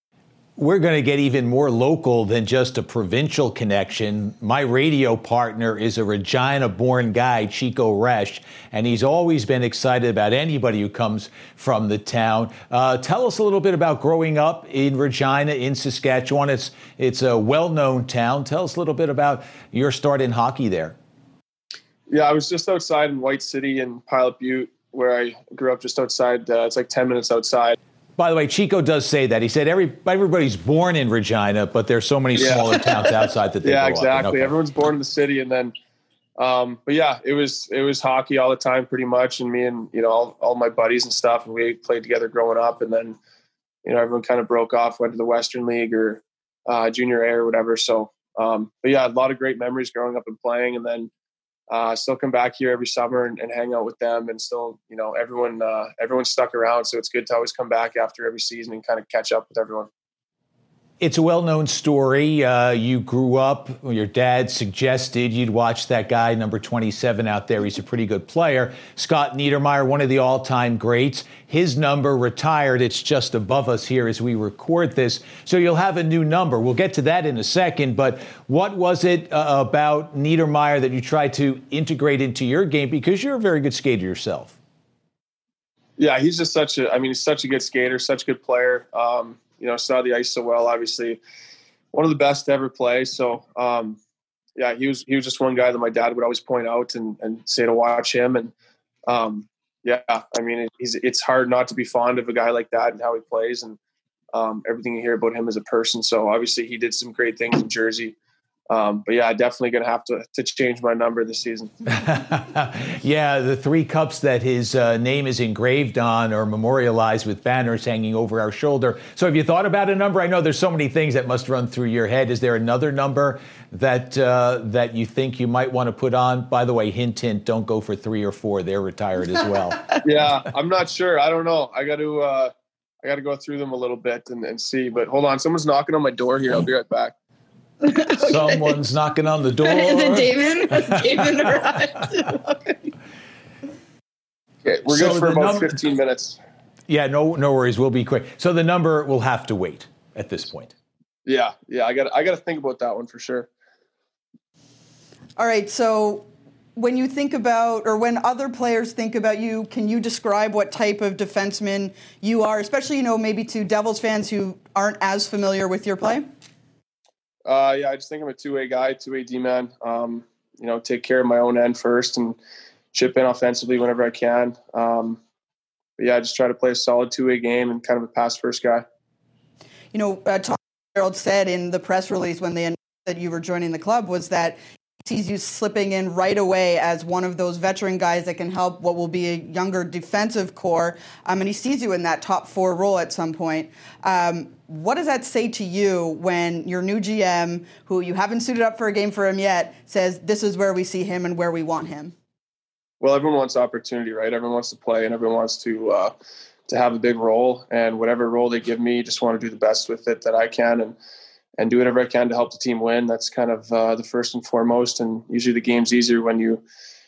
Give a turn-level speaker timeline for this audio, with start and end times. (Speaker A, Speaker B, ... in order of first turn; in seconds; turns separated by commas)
Speaker A: 0.6-20.9, Speaker B: 22.1-27.8, Speaker A: 28.2-34.6, Speaker B: 32.3-32.8, Speaker B: 33.6-35.7, Speaker B: 36.4-43.2, Speaker B: 43.8-51.1, Speaker B: 51.7-59.9, Speaker A: 61.0-84.5, Speaker B: 86.0-91.2, Speaker B: 91.9-94.0, Speaker B: 94.5-98.5, Speaker B: 99.0-103.8, Speaker B: 104.3-108.2, Speaker B: 108.7-111.7, Speaker A: 111.9-129.8, Speaker B: 130.0-137.1, Speaker A: 138.1-141.8, Speaker C: 139.6-142.3, Speaker B: 144.6-146.4, Speaker A: 144.8-145.8, Speaker A: 146.9-150.7, Speaker B: 151.2-153.5, Speaker C: 155.4-166.3, Speaker B: 167.4-172.4, Speaker B: 172.9-175.2, Speaker B: 176.0-178.8, Speaker C: 179.9-202.1, Speaker B: 203.0-206.1, Speaker B: 206.7-211.0, Speaker B: 211.6-216.6